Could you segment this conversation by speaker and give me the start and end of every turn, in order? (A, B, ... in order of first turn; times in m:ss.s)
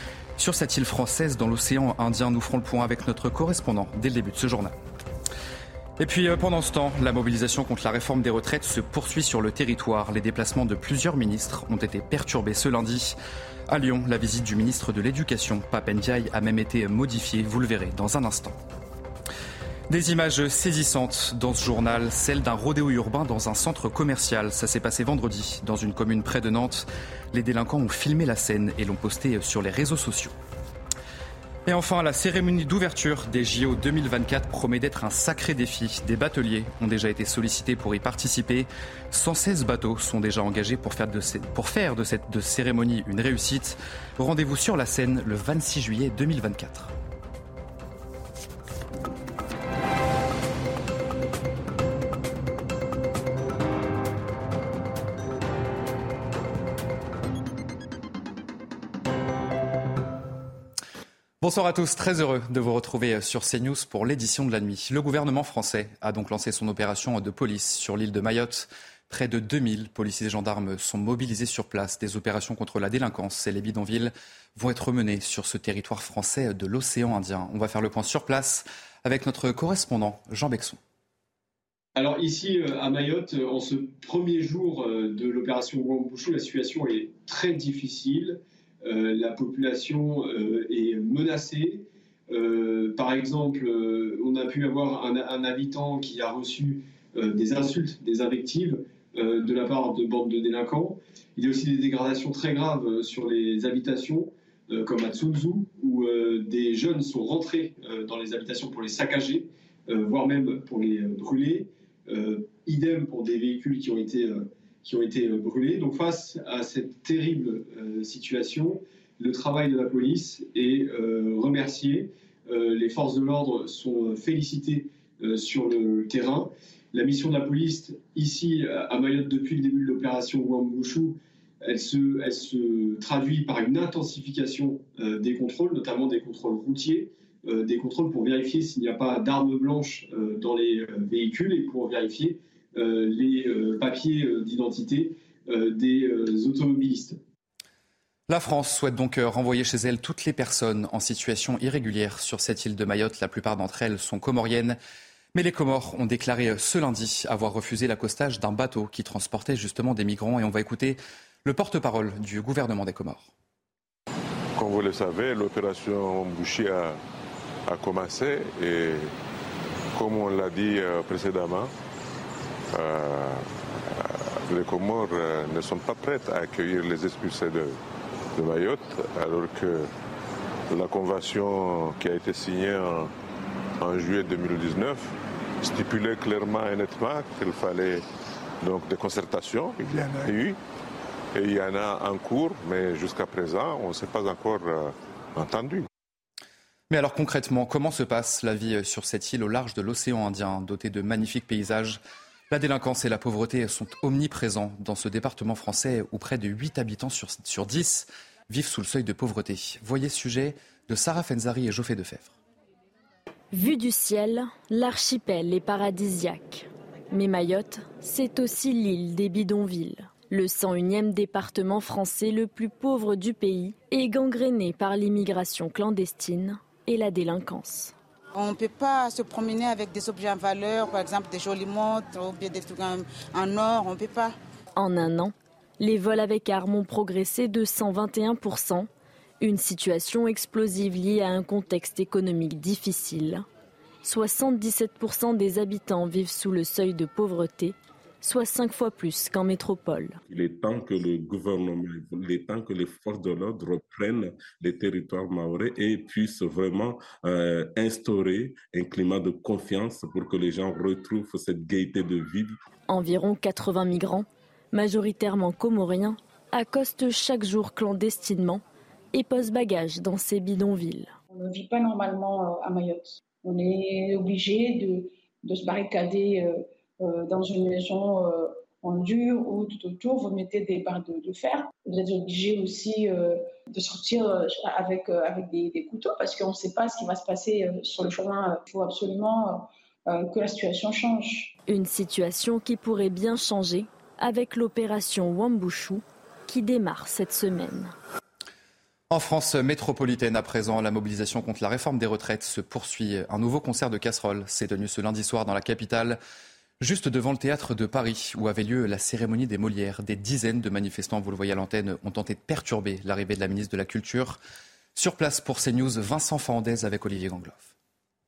0:00.4-0:04.7 A
0:06.0-0:13.2 A
0:13.7-0:18.6 A
0:19.9-0:30.3 A
0:31.7-0:46.9 A
1:01.4-1:20.8 A
1:21.9-2:27.2 B
2:28.3-2:34.8 A
2:35.3-2:43.3 A
2:44.6-2:47.0 C
2:47.7-2:49.1 C
2:49.9-2:51.7 C
2:52.7-2:53.4 C
2:54.5-2:57.8 C
2:58.4-2:59.9 C
3:00.7-3:03.1 C
3:03.8-3:05.1 C
3:05.6-3:08.0 C
3:08.6-3:10.6 C
3:11.3-3:15.9 C
3:16.9-3:22.0 A
3:22.5-3:32.3 A
3:33.5-3:47.9 D
3:48.4-3:54.3 E
3:54.8-3:58.9 D
3:59.4-4:03.4 D
4:04.0-4:10.2 D
4:10.3-4:22.5 F
4:22.9-4:28.6 D
4:29.1-4:31.1 D
4:31.3-4:51.5 G
4:51.7-4:57.9 D
4:59.1-5:06.2 A
5:06.8-5:14.4 A
5:15.0-5:17.7 A